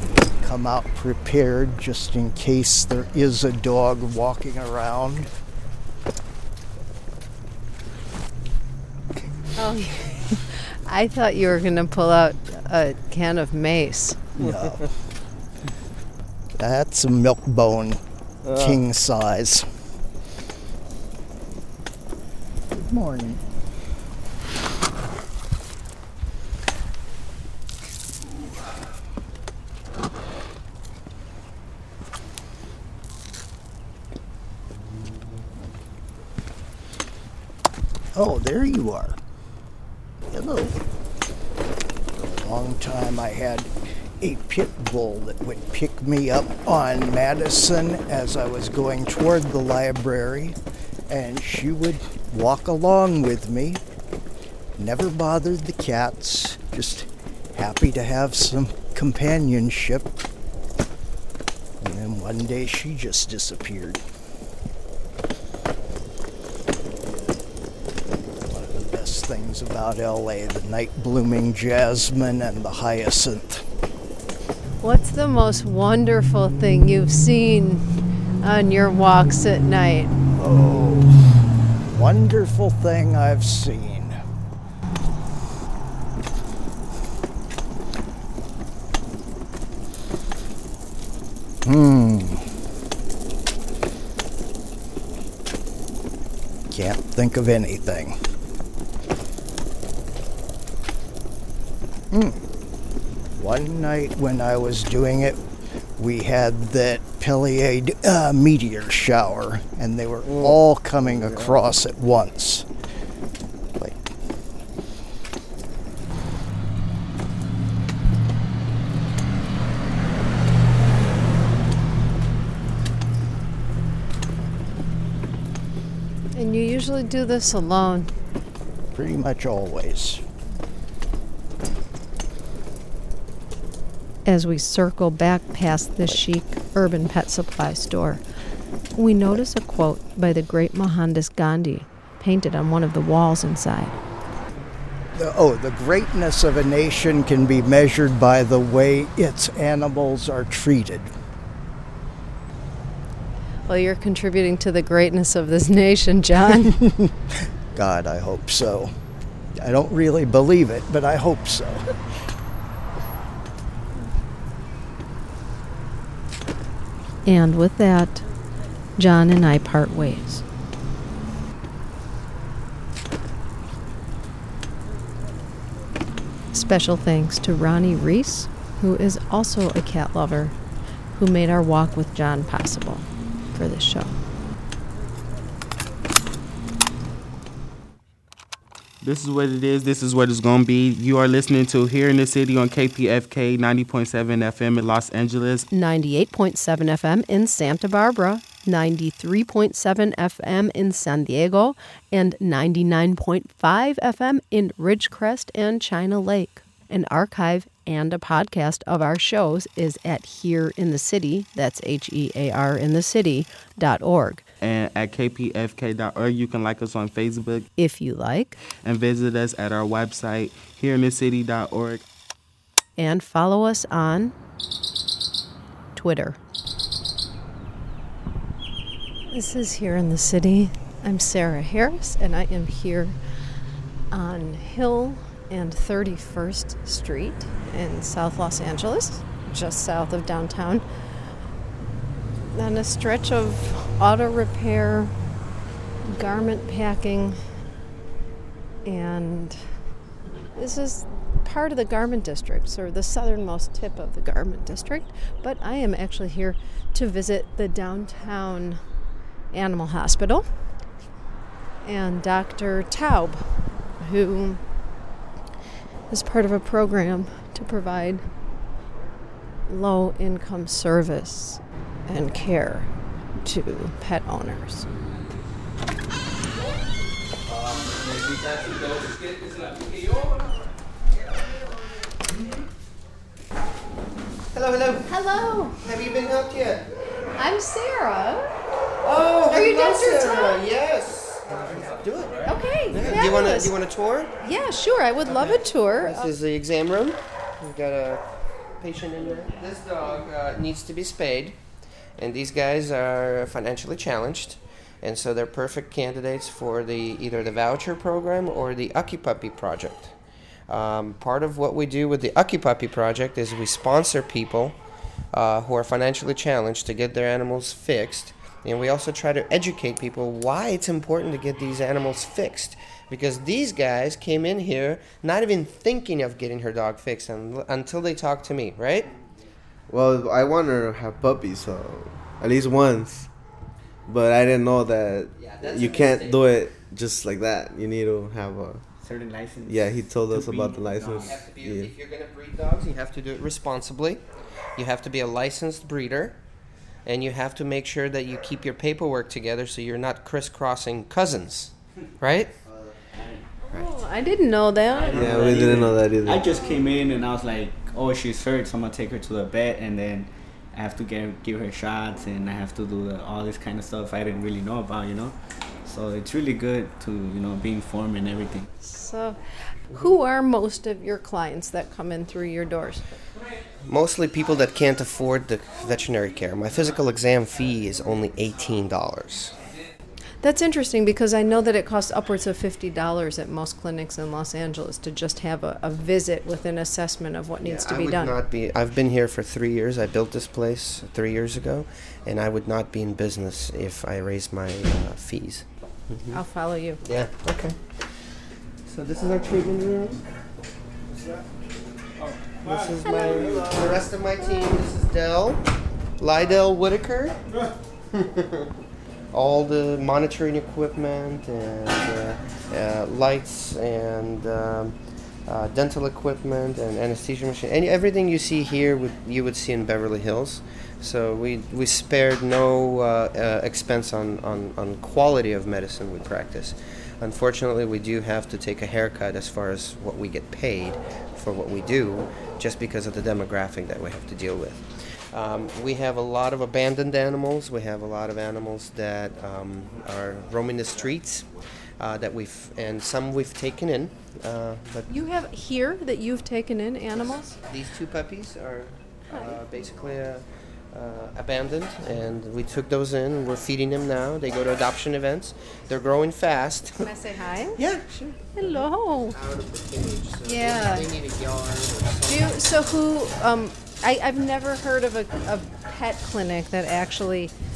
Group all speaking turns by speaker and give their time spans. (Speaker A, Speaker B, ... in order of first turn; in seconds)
Speaker A: 0.4-5.3, 14.3-14.9, 16.6-19.7, 22.7-23.4, 38.1-39.2, 40.3-40.8, 42.1-53.8, 54.8-60.1, 61.8-64.0, 68.4-73.7, 80.3-81.3, 81.8-84.2, 91.6-92.5, 96.7-98.2, 102.1-102.4, 103.3-105.4, 106.0-112.7, 128.9-130.2, 145.1-151.1, 156.7-158.9, 159.6-161.9
Speaker B: 9.6-14.2, 74.8-80.2, 126.3-128.1, 134.2-138.2, 138.9-144.0, 153.7-156.7, 167.2-168.2, 169.0-170.4, 176.5-180.6, 181.1-184.2, 195.7-214.4, 217.8-218.6, 223.0-224.3, 225.9-226.4, 229.3-233.2, 234.1-240.8, 242.5-245.1, 246.0-247.4, 248.8-249.6, 250.5-258.8, 259.5-260.4, 261.8-263.4, 264.0-264.6, 266.1-268.2, 269.7-272.9, 273.4-274.9, 285.1-285.8, 287.4-288.5, 289.5-290.6, 292.4-293.7, 294.4-296.3, 353.7-355.3, 368.8-373.0, 380.4-388.4, 396.3-397.0, 404.4-404.7, 445.1-447.6, 457.0-457.8, 458.5-459.4, 460.4-461.1, 462.3-467.5
Speaker C: 111.2-111.5, 329.9-333.3, 334.1-338.8, 339.6-341.9, 355.1-356.5
Speaker D: 189.0-195.7, 214.6-217.7, 218.8-222.0
Speaker E: 277.6-277.9, 284.5-285.1, 285.8-286.9, 289.0-294.3, 296.0-298.2, 298.8-301.6, 302.2-310.1, 310.7-314.8, 315.3-329.1, 335.4-336.5, 341.2-344.2, 344.8-346.4, 347.0-352.5, 373.9-379.6, 387.6-396.4, 397.0-400.2, 402.6-405.6, 406.2-407.4, 408.1-408.7, 409.3-441.5, 442.0-445.1, 447.7-457.1, 457.8-462.7
Speaker F: 339.0-341.5, 353.1-353.4, 355.1-365.3, 365.9-368.7